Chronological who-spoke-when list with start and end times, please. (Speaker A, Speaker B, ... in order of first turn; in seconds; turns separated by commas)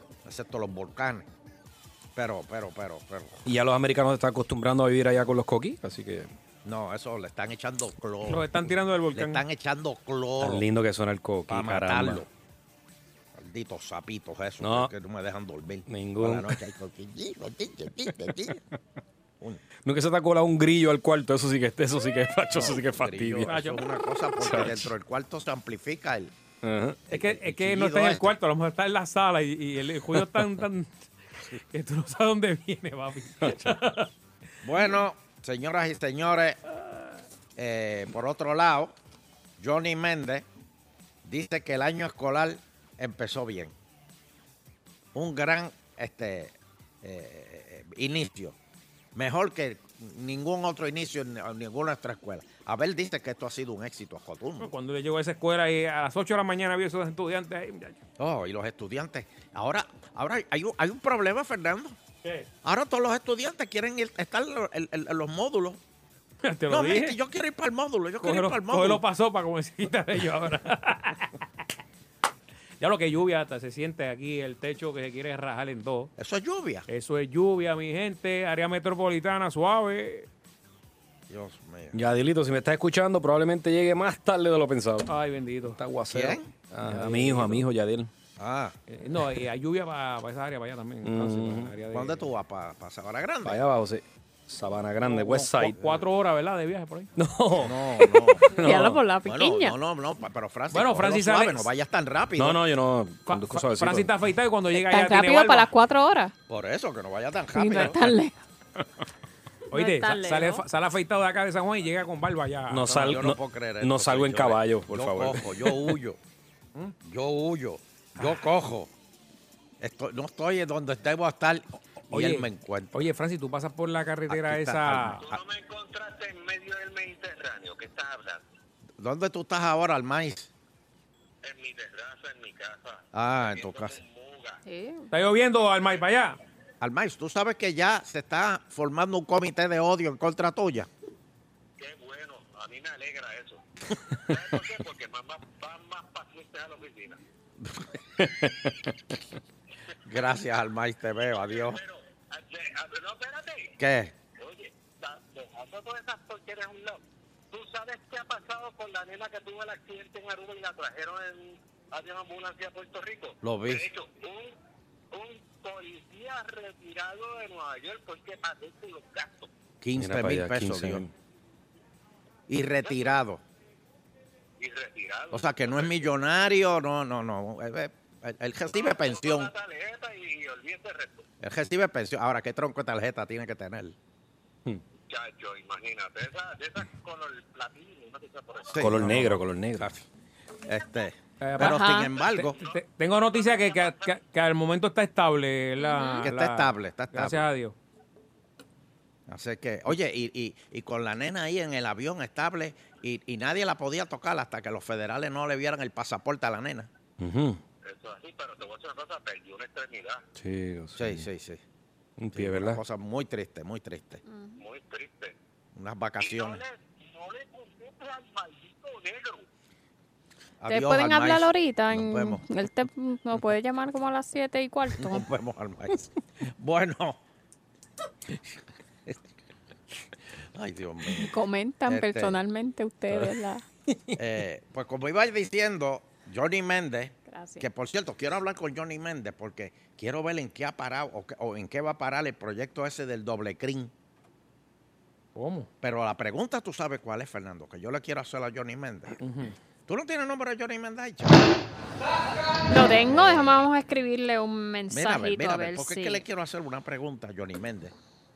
Speaker A: 0.2-1.3, Speaker A: 2.2-3.4, Speaker B: 3.5-6.3, Speaker A: 6.7-10.7, Speaker C: 8.3-9.4, Speaker B: 10.4-12.2, Speaker A: 11.5-12.3, Speaker A: 13.3-18.6, Speaker B: 14.6-14.9, Speaker B: 15.9-16.6, Speaker B: 19.9-23.6, Speaker A: 22.5-26.3, Speaker C: 23.5-23.8, Speaker B: 24.4-24.9, Speaker B: 26.6-27.0, Speaker A: 27.1-28.3, Speaker C: 27.1-30.9, Speaker C: 31.7-34.1, Speaker B: 33.4-33.7, Speaker A: 34.6-36.6, Speaker A: 37.6-38.9, Speaker A: 39.6-40.5, Speaker A: 41.2-43.7, Speaker A: 45.1-48.6, Speaker A: 49.1-54.7, Speaker C: 54.6-58.0, Speaker A: 58.2-62.0, Speaker A: 62.6-65.8, Speaker C: 66.4-67.2, Speaker A: 66.7-69.0, Speaker C: 68.2-71.3, Speaker C: 72.8-76.1, Speaker A: 76.2-76.9, Speaker C: 76.9-80.3, Speaker A: 81.3-82.0, Speaker B: 81.9-85.1, Speaker C: 85.1-85.8, Speaker B: 85.8-88.1, Speaker A: 86.1-86.5, Speaker C: 86.9-87.6, Speaker A: 88.4-88.8, Speaker C: 88.9-92.3, Speaker B: 91.0-91.8, Speaker A: 91.9-93.6, Speaker B: 93.5-95.8, Speaker C: 95.0-97.1, Speaker B: 97.2-99.0, Speaker A: 97.6-98.5, Speaker D: 98.6-99.8, Speaker A: 99.2-102.6, Speaker C: 100.7-101.7, Speaker B: 102.4-104.1, Speaker C: 103.3-105.7, Speaker D: 104.8-106.3, Speaker A: 106.5-108.0, Speaker D: 107.5-108.4, Speaker C: 109.7-113.2, Speaker D: 109.7-110.6, Speaker B: 112.7-115.8, Speaker A: 112.9-116.2, Speaker A: 117.0-118.9, Speaker A: 119.8-123.0, Speaker C: 122.1-125.2, Speaker A: 124.3-125.4, Speaker E: 125.1-128.4, Speaker A: 129.0-130.5, Speaker E: 131.4-134.6, Speaker A: 133.1-134.0, Speaker D: 134.7-135.1, Speaker C: 135.1-136.4, Speaker A: 136.8-140.9, Speaker E: 141.8-143.6, Speaker E: 144.2-147.2, Speaker A: 150.1-151.8, Speaker E: 151.2-153.8, Speaker A: 153.8-154.1, Speaker E: 154.4-164.5, Speaker A: 163.4-163.8, Speaker E: 165.1-169.5, Speaker A: 169.8-171.1, Speaker B: 170.0-171.1, Speaker A: 172.5-173.4, Speaker E: 172.8-173.1, Speaker E: 174.6-176.1, Speaker A: 175.3-179.5, Speaker E: 178.7-181.3, Speaker A: 181.4-184.0, Speaker E: 185.0-188.8, Speaker A: 188.7-190.1, Speaker B: 188.8-189.9, Speaker A: 190.7-192.6, Speaker C: 191.4-197.8, Speaker D: 191.6-192.1, Speaker E: 192.4-194.2, Speaker D: 195.8-196.3, Speaker A: 196.2-197.5, Speaker A: 199.3-206.9, Speaker B: 207.2-207.6, Speaker E: 207.8-210.2, Speaker B: 210.4-211.3, Speaker A: 211.0-211.6, Speaker B: 212.2-212.8, Speaker A: 212.3-214.2, Speaker D: 214.3-214.6, Speaker E: 214.6-215.3, Speaker A: 215.8-216.6, Speaker E: 216.2-219.5, Speaker A: 220.6-222.4, Speaker D: 220.7-225.3, Speaker A: 225.0-227.2, Speaker A: 230.5-231.3, Speaker D: 231.2-233.6, Speaker A: 231.9-232.4, Speaker A: 234.2-243.9, Speaker D: 237.3-237.7, Speaker C: 245.3-245.7, Speaker A: 245.8-249.2, Speaker C: 249.2-249.5, Speaker A: 249.9-251.4, Speaker D: 252.7-256.2, Speaker A: 253.1-253.5, Speaker A: 254.9-257.9